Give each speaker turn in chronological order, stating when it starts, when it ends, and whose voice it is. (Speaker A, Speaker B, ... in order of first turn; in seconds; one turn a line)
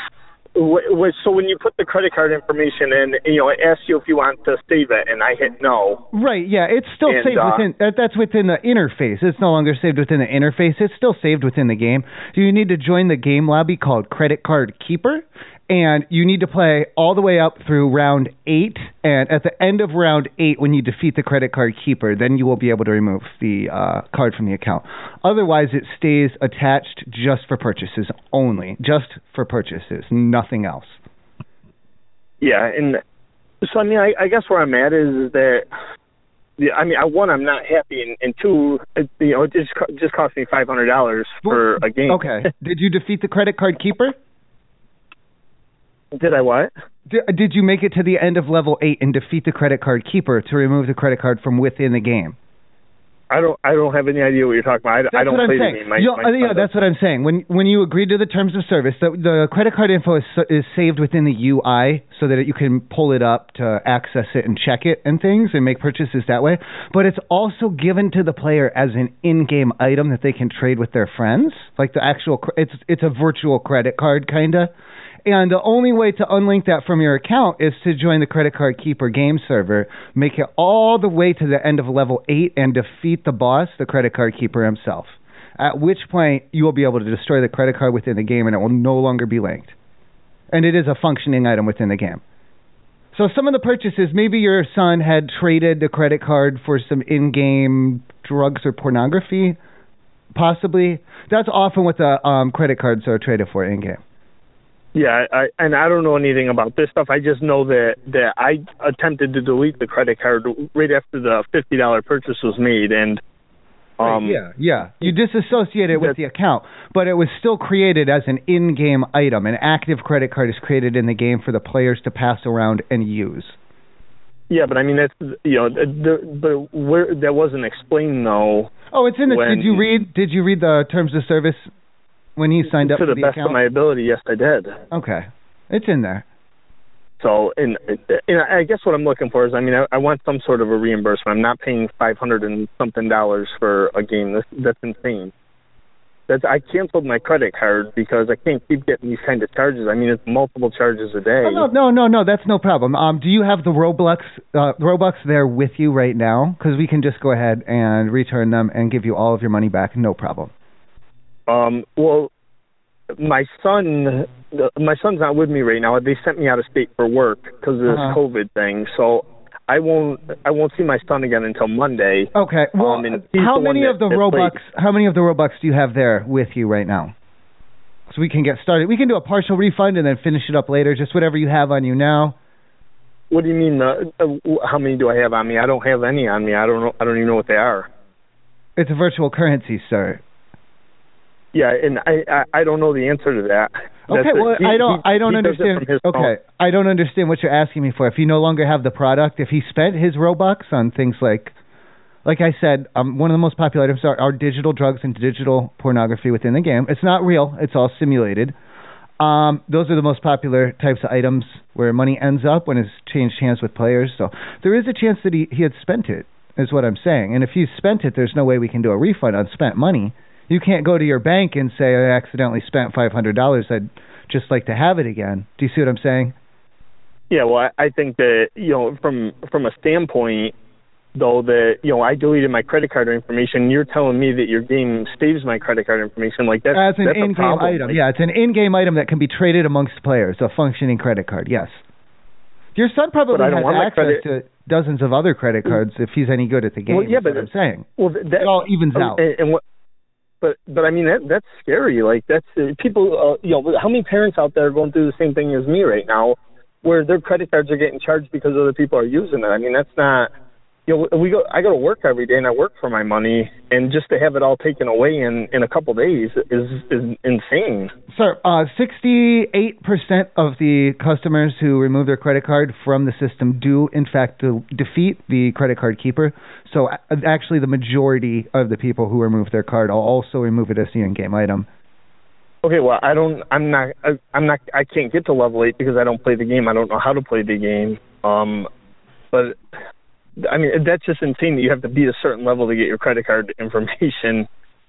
Speaker A: 0.6-6.0
Speaker B: 6.1-31.0
Speaker A: 7.1-7.6
Speaker A: 32.4-33.0
Speaker A: 33.6-35.7
Speaker A: 36.6-42.2
Speaker B: 41.5-44.2
Speaker A: 46.1-46.7
Speaker B: 47.1-52.4
Speaker A: 53.3-56.7
Speaker B: 55.1-74.7
Speaker B: 75.3-89.7
Speaker B: 90.5-92.2
Speaker B: 93.1-99.6
Speaker B: 100.3-104.0
Speaker A: 105.0-113.2
Speaker A: 114.0-114.4
Speaker B: 114.0-123.6
Speaker A: 124.5-128.7
Speaker B: 128.9-131.7
Speaker A: 129.3-129.8
Speaker B: 132.4-133.6
Speaker A: 132.8-134.8
Speaker B: 134.9-136.2
Speaker A: 137.2-145.3
Speaker A: 146.3-151.7
Speaker B: 151.4-160.5
Speaker A: 161.5-162.3
Speaker A: 163.2-174.5
Speaker B: 167.9-168.2
Speaker B: 172.3-177.1
Speaker B: 178.1-182.4
Speaker A: 183.3-187.9
Speaker B: 188.8-190.2
Speaker A: 191.5-196.3
Speaker B: 194.1-201.6
Speaker B: 202.2-208.6
Speaker B: 209.2-226.3
Speaker A: 227.3-230.5
Speaker A: 231.2-238.0
Speaker B: 236.7-241.8
Speaker B: 242.8-247.9
Speaker A: 243.3-244.2
Speaker A: 246.9-247.5
Speaker A: 248.0-249.6
Speaker B: 248.4-249.2
Speaker A: 250.4-260.3
Speaker A: 260.9-267.9
Speaker B: 268.1-281.7
Speaker A: 282.6-288.7
Speaker A: 289.3-289.6
Speaker A: 290.4-294.5